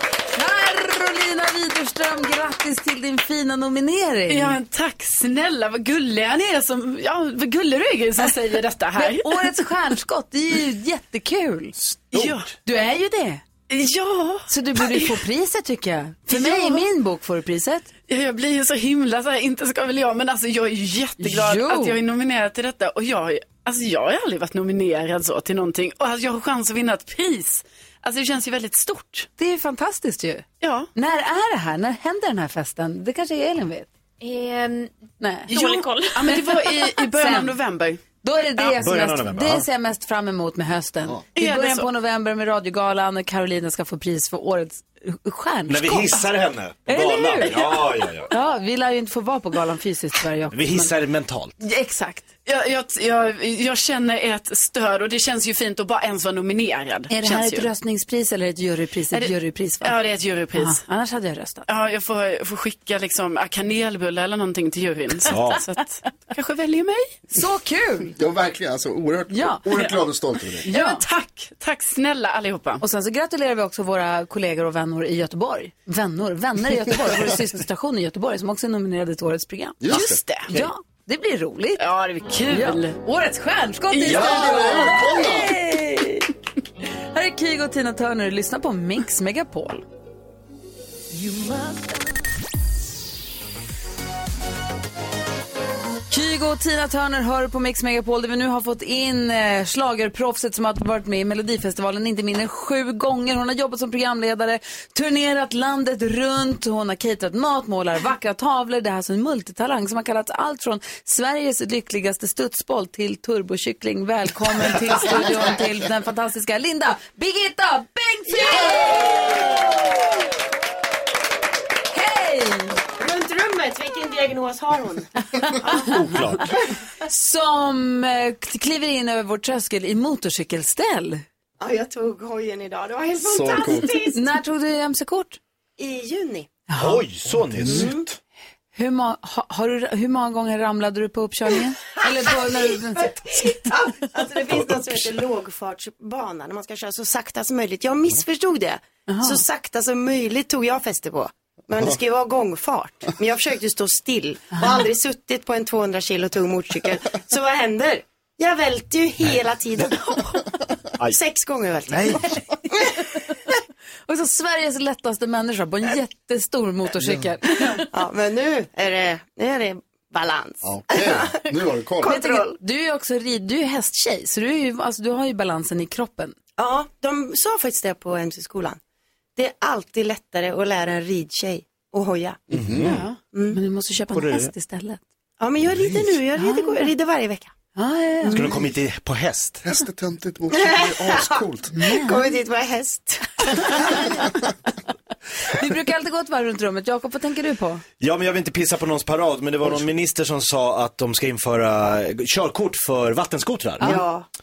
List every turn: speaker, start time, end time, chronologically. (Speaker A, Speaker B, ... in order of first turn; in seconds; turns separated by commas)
Speaker A: 0.3-4.6, Speaker B: 4.3-9.5, Speaker A: 9.0-11.8, Speaker C: 11.8-12.4, Speaker B: 12.1-12.5, Speaker A: 12.6-13.4, Speaker B: 13.7-15.2, Speaker A: 14.5-17.9, Speaker B: 16.3-16.9, Speaker B: 18.1-29.3, Speaker A: 21.2-22.0, Speaker A: 29.4-33.9, Speaker B: 30.6-30.9, Speaker A: 35.2-37.6, Speaker B: 35.5-38.0, Speaker A: 38.2-46.2, Speaker C: 38.6-39.6, Speaker B: 41.4-41.9, Speaker C: 45.7-48.3, Speaker A: 46.9-50.9, Speaker C: 50.5-51.5, Speaker A: 51.6-52.2, Speaker B: 52.4-57.7, Speaker A: 57.1-59.9, Speaker B: 59.1-60.8, Speaker A: 60.6-61.6, Speaker B: 61.7-67.2, Speaker C: 65.2-65.6, Speaker A: 67.3-68.1, Speaker D: 68.2-70.7, Speaker A: 69.3-69.6, Speaker A: 70.7-71.0, Speaker B: 70.7-72.8, Speaker A: 72.8-79.9, Speaker D: 79.8-80.2, Speaker B: 79.9-80.5, Speaker A: 80.5-81.8, Speaker B: 81.8-83.0, Speaker A: 82.5-86.3, Speaker B: 83.9-85.0, Speaker D: 84.0-85.6, Speaker A: 87.1-89.8, Speaker A: 96.1-120.0, Speaker A: 121.9-122.8, Speaker E: 123.0-126.4, Speaker A: 125.4-126.0, Speaker C: 125.7-126.5, Speaker A: 127.0-131.2, Speaker E: 131.6-134.3, Speaker D: 133.2-133.9, Speaker A: 134.1-135.4, Speaker E: 135.8-136.5, Speaker A: 136.7-137.1, Speaker C: 136.7-138.2, Speaker D: 137.3-137.9, Speaker E: 137.7-138.0, Speaker A: 138.7-143.7, Speaker E: 142.3-160.4, Speaker A: 149.1-149.4, Speaker E: 161.1-162.2, Speaker C: 161.9-162.3, Speaker E: 162.8-163.1, Speaker A: 164.1-167.8, Speaker E: 167.8-171.4, Speaker D: 170.6-172.2, Speaker E: 172.0-172.6, Speaker A: 172.0-176.3, Speaker E: 176.6-178.8, Speaker E: 179.3-183.6, Speaker D: 182.5-182.9, Speaker C: 182.5-183.1, Speaker A: 183.5-185.0, Speaker C: 184.1-184.5, Speaker E: 185.4-187.5, Speaker A: 186.4-186.9, Speaker A: 187.8-188.4, Speaker E: 188.2-188.7, Speaker C: 188.3-189.6, Speaker D: 189.6-191.7, Speaker E: 190.5-194.1, Speaker A: 191.7-192.3, Speaker A: 195.4-197.8, Speaker C: 198.0-204.0, Speaker E: 203.8-204.2